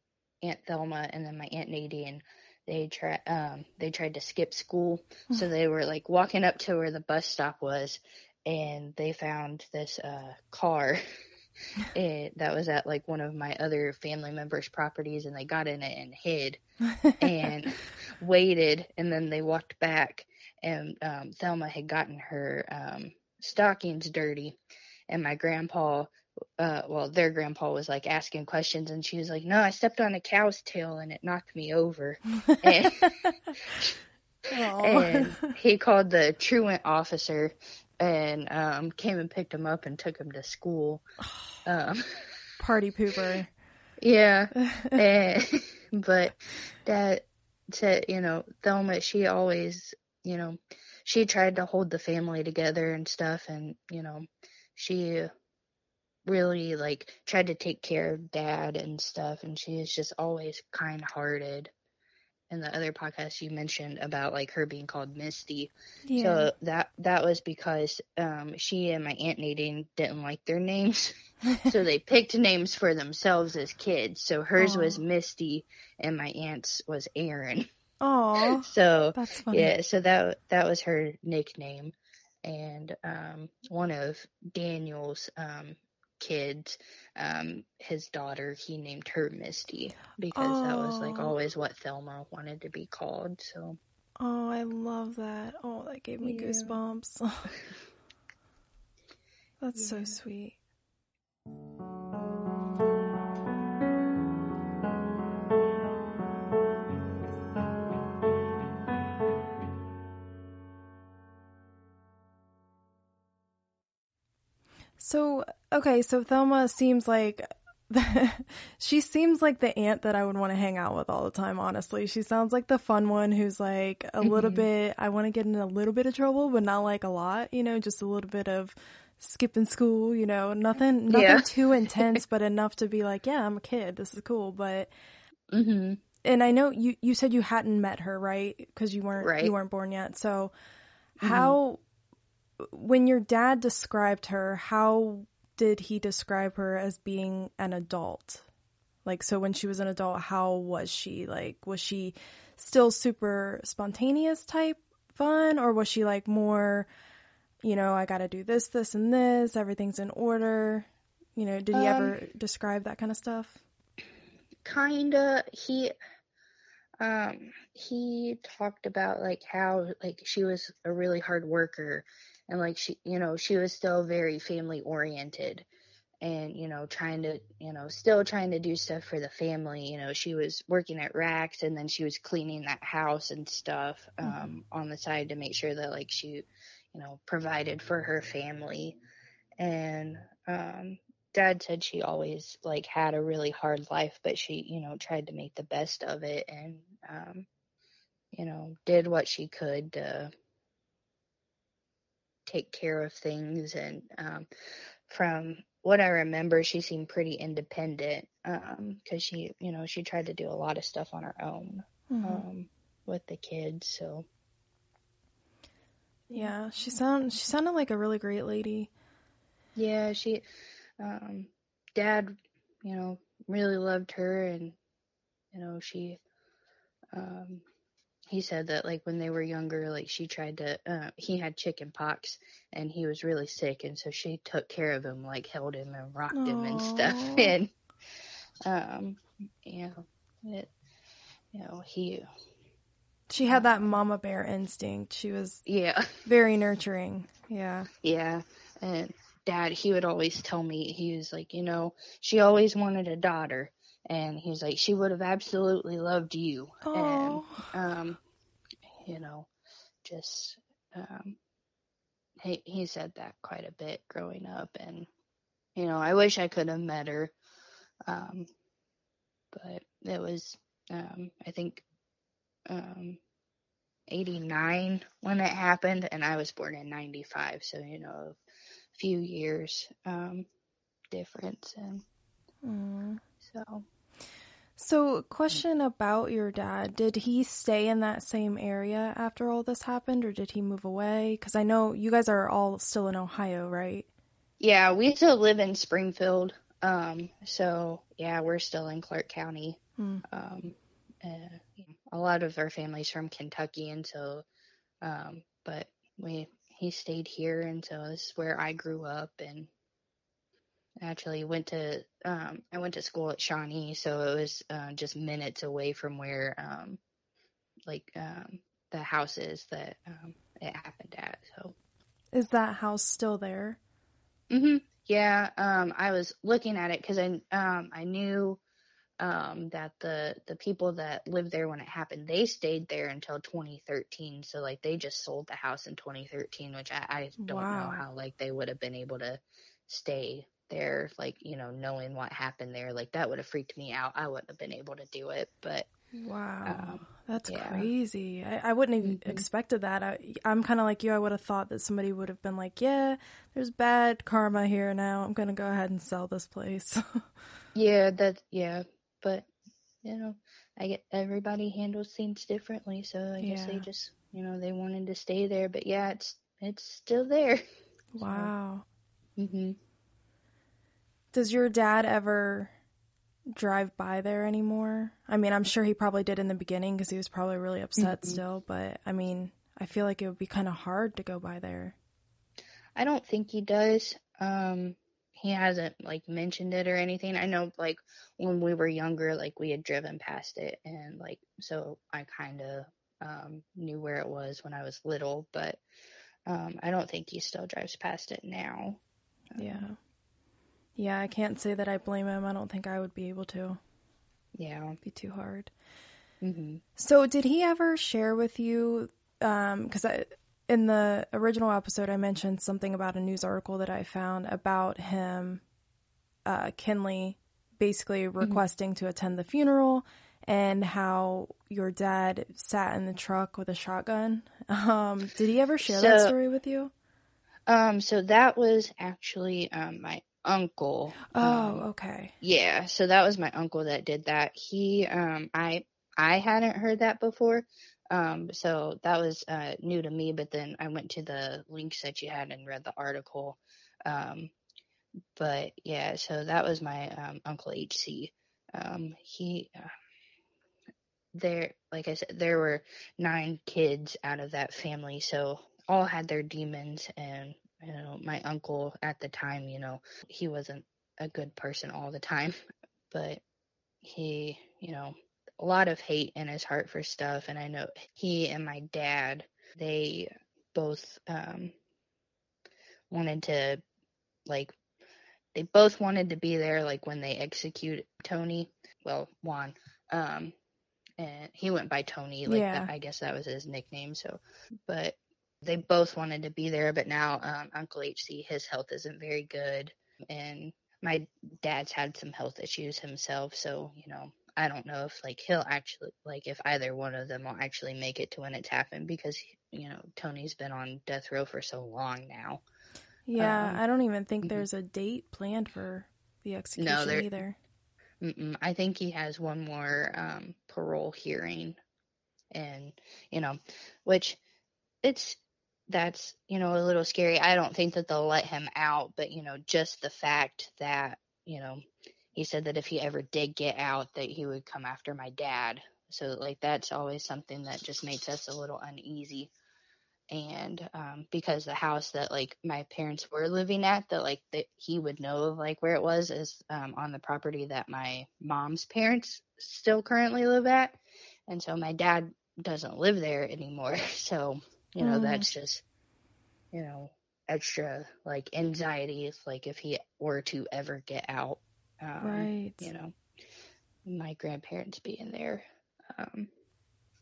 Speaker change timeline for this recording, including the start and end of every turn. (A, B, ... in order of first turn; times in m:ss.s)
0:00.4-0:11.0 A
0:11.9-0:16.6 A
0:17.2-0:24.6 A
0:25.1-0:33.1 A
0:32.5-0:33.3 B
0:34.5-0:35.5 B
0:34.8-0:41.0 A
0:41.6-0:42.0 A
0:42.6-0:43.5 B
0:44.0-0:55.3 A
0:44.6-0:45.0 B
0:56.2-1:01.7 A
1:02.5-1:17.7 A
1:06.0-1:06.5 B
1:14.6-1:15.0 B
1:18.0-1:19.7 B
1:18.6-1:33.8 A
1:30.3-1:31.3 B
1:34.2-1:37.4 B
1:36.2-1:36.8 A
1:39.6-1:40.6 B
1:39.8-1:40.2 A
1:55.0-2:14.9 B
2:04.2-2:04.7 A
2:11.1-2:11.5 A
2:15.5-2:16.0 A
2:16.2-2:20.5 B
2:19.2-2:19.5 A
2:21.2-2:21.8 B
2:21.2-2:21.6 A
2:22.6-2:28.4 B
2:29.0-2:36.9 B
2:37.6-2:43.6 B
2:41.7-2:42.2 A
2:44.6-2:45.9 A
2:47.0-2:55.6 A
2:56.2-3:09.0 A
3:09.6-3:17.5 A
3:18.3-3:20.3 A
3:22.4-3:24.5 A
3:25.1-3:34.2 A
3:32.1-3:32.5 B
3:36.3-3:38.9 B
3:39.7-3:40.4 A
3:41.0-3:44.8 A
3:45.5-3:46.2 A
3:47.1-3:47.6 A
3:48.3-3:57.7 A
3:56.3-3:57.6 B
3:58.6-4:00.7 A
4:01.5-4:02.3 A
4:03.3-4:05.6 B
4:03.5-4:03.7 A
4:05.6-4:06.1 A
4:06.2-4:07.9 B
4:08.0-4:18.2 A
4:16.8-4:17.7 B
4:19.0-4:19.5 A
4:20.0-4:21.4 A
4:22.4-4:25.1 A
4:25.8-4:27.3 A
4:28.0-4:28.5 A
4:29.5-4:31.8 A
4:32.7-4:33.2 A
4:34.1-4:38.4 A
4:38.9-4:40.5 A
4:41.1-4:42.0 A
4:42.6-4:43.2 B
4:43.4-4:43.8 A
4:44.8-4:54.0 B
4:54.6-5:04.4 A
5:00.0-5:00.2 B
5:05.0-5:09.7 A
5:11.0-5:17.0 A
5:17.9-5:21.7 A
5:22.3-5:23.8 B
5:24.5-5:28.6 A
5:29.2-5:45.9 A
5:37.4-5:38.0 B
5:46.1-5:57.0 B
5:46.6-5:47.9 A
5:49.0-5:49.4 A
5:57.7-5:59.5 A
6:00.0-6:07.6 A
6:03.4-6:03.8 B
6:08.2-6:08.8 B
6:08.2-6:08.5 A
6:09.4-6:09.8 A
6:11.3-6:12.7 B
6:13.5-6:21.9 B
6:18.0-6:18.4 A
6:23.0-6:35.8 A
6:36.5-6:39.0 A
6:39.5-6:39.9 A
6:39.6-6:40.0 B
6:41.0-6:43.8 B
6:44.5-6:45.0 A
6:45.0-6:45.7 B
6:46.4-6:46.8 A
6:47.0-6:55.6 B
6:56.4-7:06.9 B
7:05.8-7:06.4 A
7:07.7-7:11.9 A
7:11.3-7:12.3 B
7:12.4-7:24.5 A
7:25.4-7:29.9 A
7:31.3-7:42.6 A
7:43.1-7:43.4 A
7:44.0-7:51.7 A
7:53.1-7:53.8 A
7:54.5-7:54.7 A
7:55.5-8:00.5 A
8:01.2-8:22.6 A
8:02.4-8:02.9 B
8:23.3-8:27.6 B
8:23.4-8:23.8 A
8:26.8-8:27.4 A
8:28.2-8:31.8 A
8:32.5-8:34.4 A
8:35.0-8:41.8 A
8:42.3-8:49.5 A
8:50.3-9:05.8 A
9:05.0-9:05.5 B
9:06.7-9:13.1 A
9:12.2-9:12.9 B
9:14.0-9:16.5 A